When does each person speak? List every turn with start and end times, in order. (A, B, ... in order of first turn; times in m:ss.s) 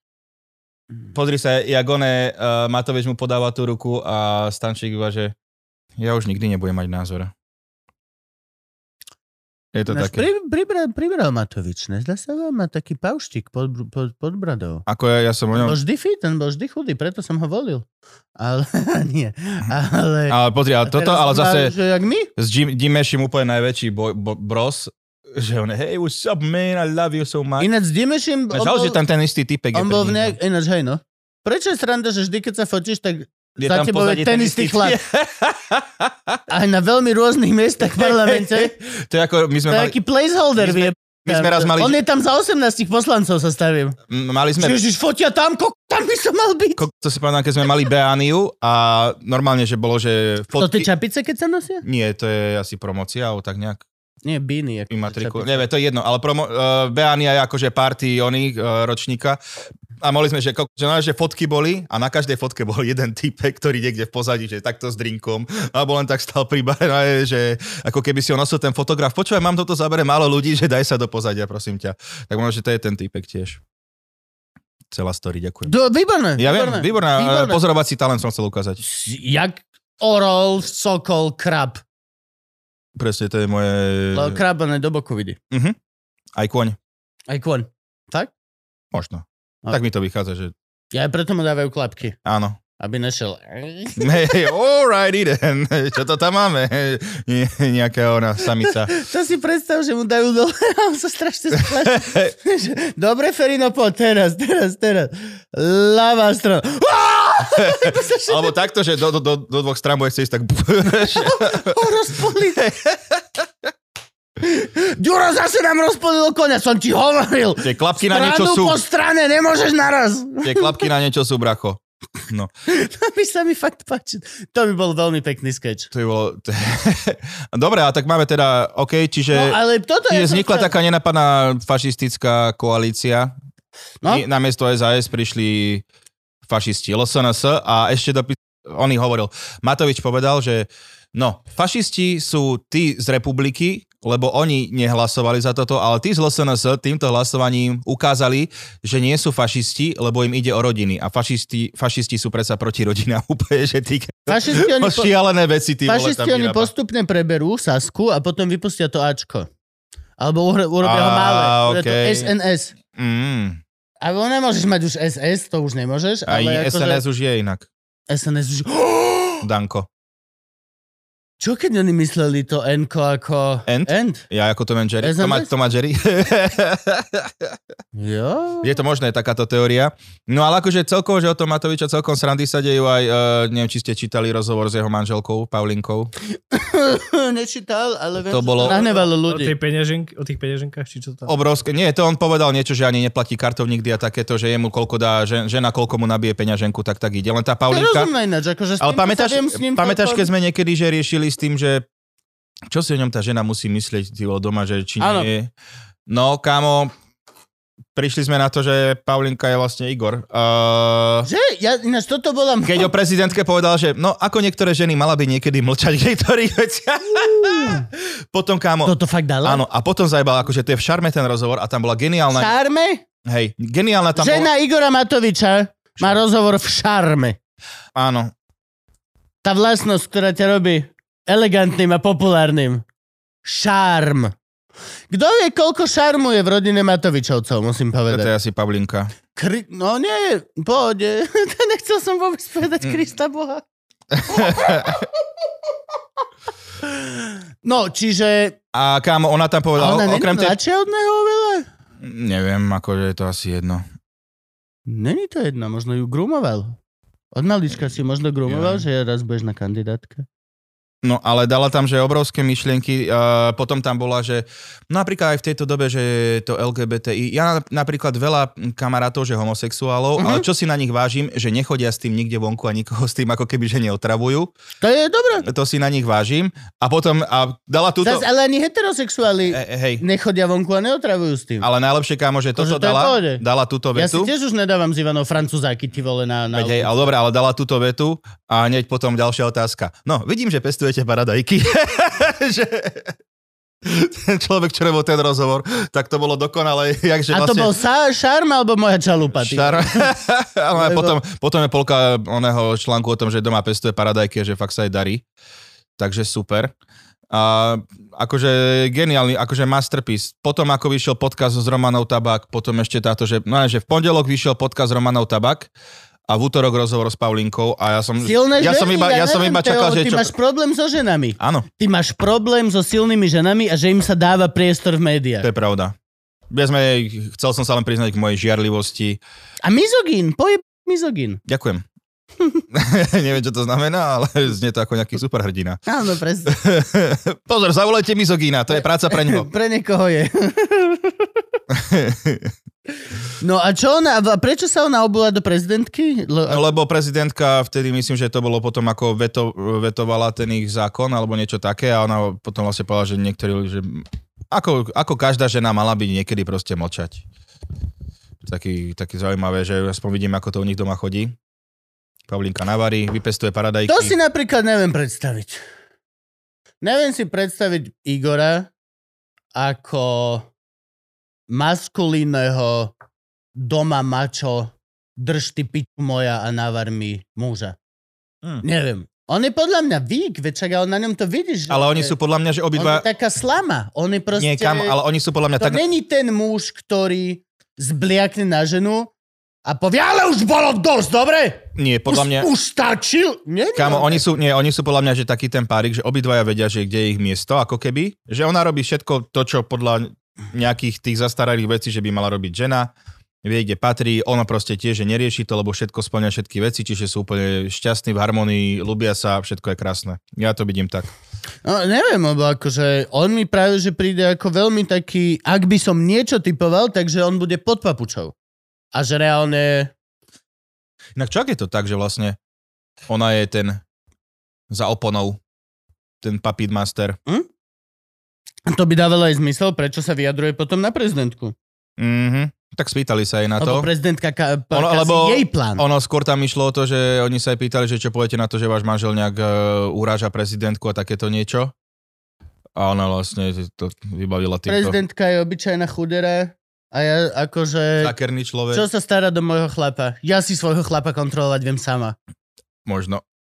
0:01.1-0:05.3 A
0:06.0-0:07.3 A
0:09.7-0:10.2 A
0:09.9-0:14.8 B
0:14.9-0:15.8 A
0:15.5-0:17.8 B
0:18.4-0:22.3 B
0:20.3-0:21.7 A
0:22.4-0:27.7 A
0:27.6-0:29.0 B
0:28.5-0:30.4 A
0:29.7-0:35.0 B
0:33.6-0:36.4 A
0:36.5-0:38.7 B
0:37.9-0:40.0 A
0:39.7-0:44.0 B
0:40.6-0:42.0 A
0:44.1-0:44.8 A
0:44.6-0:46.8 B
0:46.8-0:50.9 A
0:50.6-0:51.8 B
0:51.8-0:53.8 A
0:54.2-0:55.6 B
0:54.9-0:59.4 A
1:00.0-1:13.6 A
1:14.9-1:15.7 A
1:15.6-1:17.6 B
1:16.4-1:18.8 A
1:18.8-1:21.8 B
1:23.0-1:24.4 A
1:24.1-1:25.4 B
1:25.5-1:25.8 A
1:26.4-1:26.8 A
1:27.3-1:28.3 B
1:28.9-1:30.5 A
1:30.9-1:32.2 B
1:32.2-1:32.6 A
1:32.8-1:34.3 B
1:34.0-1:38.9 A
1:38.6-1:48.6 B
1:41.6-1:42.3 A
1:47.6-1:51.7 A
1:51.1-1:52.6 B
1:52.6-1:53.4 A
1:54.4-2:00.8 B
1:57.6-1:58.8 A
2:00.4-2:02.5 A
2:02.7-2:05.9 B
2:05.9-2:13.3 A
2:09.3-2:10.7 B
2:14.0-2:15.8 A
2:16.5-2:36.7 A
2:34.3-2:35.1 B
2:35.8-2:39.5 B
2:40.2-2:42.7 B
2:40.8-2:42.3 A
2:42.9-2:43.6 A
2:44.0-2:47.0 B
2:46.3-2:47.7 A
2:48.1-2:49.4 B
2:49.4-2:49.9 A
2:51.4-2:54.2 B
2:53.7-2:57.5 A
2:55.0-2:55.5 B
2:57.9-2:58.8 B
2:58.6-3:06.1 A
3:06.5-3:09.5 B
3:08.2-3:08.9 A
3:09.2-3:11.3 C
3:11.2-3:18.1 A
3:17.7-3:20.3 B
3:18.8-3:21.8 A
3:22.7-3:25.5 A
3:25.0-3:25.3 B
3:26.1-3:26.9 A
3:27.9-3:31.3 A
3:31.2-3:32.9 B
3:32.6-3:42.5 A
3:37.2-3:37.8 B
3:38.8-3:39.6 B
3:42.3-3:43.0 B
3:43.2-3:44.5 A
3:44.2-3:47.4 B
3:47.9-3:48.3 A
3:49.4-3:52.8 B
3:53.4-3:54.3 B
3:55.1-3:58.3 B
3:58.1-3:59.1 A
3:59.3-4:03.6 B
4:04.1-4:05.0 A
4:04.3-4:05.0 B
4:06.8-4:08.6 B
4:08.7-4:10.6 A
4:09.8-4:11.7 B
4:12.0-4:13.8 A
4:14.8-4:16.8 B
4:17.3-4:20.2 B
4:18.5-4:18.8 A
4:21.0-4:34.5 A
4:30.2-4:30.4 B
4:34.8-4:35.4 B
4:35.4-4:38.2 A
4:38.0-4:41.7 B
4:39.5-4:40.0 A
4:41.6-4:44.3 A
4:42.6-4:43.4 B
4:43.9-4:46.9 B
4:46.5-4:53.1 A
4:53.8-4:57.7 A
4:57.3-5:00.1 B
4:59.4-5:05.2 A
5:00.7-5:01.2 B
5:06.0-5:06.7 A
5:07.3-5:15.7 A
5:16.3-5:20.3 A
5:18.2-5:25.5 B
5:21.4-5:21.7 A
5:25.4-5:25.9 A
5:26.5-5:29.2 A
5:29.6-5:31.4 B
5:31.5-5:31.8 A
5:32.7-5:35.8 A
5:35.9-5:36.5 B
5:36.4-5:39.5 A
5:39.1-5:41.3 B
5:41.7-5:42.5 A
5:43.4-5:46.7 B
5:46.5-5:57.2 A
5:58.4-6:01.4 A
6:02.3-6:04.2 A
6:03.9-6:05.6 B
6:06.8-6:08.7 B
6:09.5-6:10.5 B
6:11.5-6:12.9 B
6:13.5-6:17.8 B
6:18.6-6:22.1 B
6:21.7-6:23.0 A
6:22.7-6:25.0 B
6:24.4-6:25.8 A
6:25.6-6:29.1 B
6:29.6-6:34.2 B
6:31.8-6:32.5 A
6:33.7-6:42.9 A
6:43.4-6:51.1 A
6:51.6-6:58.3 B
6:58.9-6:59.9 B
7:01.2-7:02.4 A
7:03.1-7:03.8 A
7:04.7-7:05.4 A
7:06.2-7:07.2 A
7:08.7-7:11.5 B
7:12.0-7:13.9 A
7:13.6-7:15.8 B
7:14.7-7:21.7 A
7:22.8-7:25.0 A
7:24.7-7:28.1 B
7:28.0-7:28.8 A
7:28.7-7:32.2 B
7:32.8-7:33.2 A